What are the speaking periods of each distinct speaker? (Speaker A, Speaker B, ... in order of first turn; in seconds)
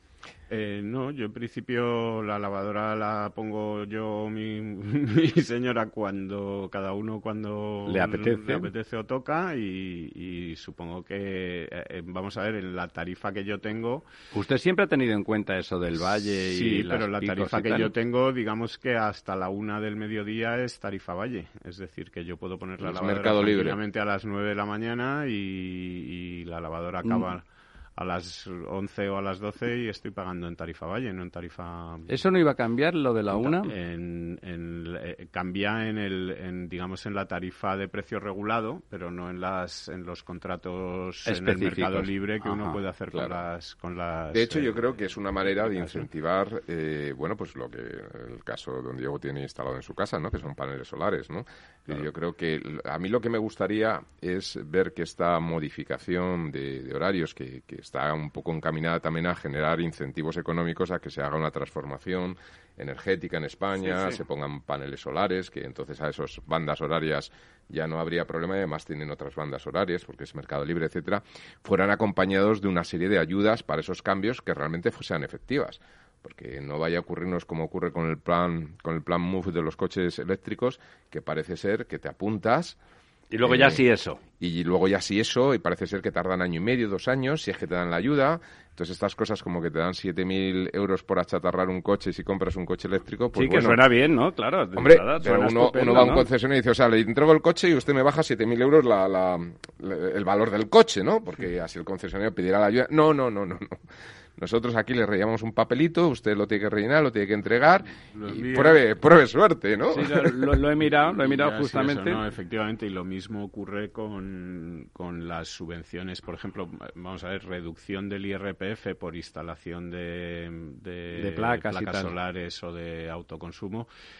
Speaker A: 0.5-14.1, 16.3-27.4, 28.0-32.2, 33.3-44.8, 45.5-46.0, 108.1-108.8, 110.9-123.9
Speaker B: 7.8-8.7, 14.3-17.9, 32.1-33.7, 41.2-42.8, 83.3-84.2, 93.3-96.2, 109.9-112.2, 121.1-122.1
Speaker C: 22.8-23.8, 43.1-43.4, 44.3-82.8, 83.4-83.8, 84.4-93.9, 94.8-103.8, 104.4-110.5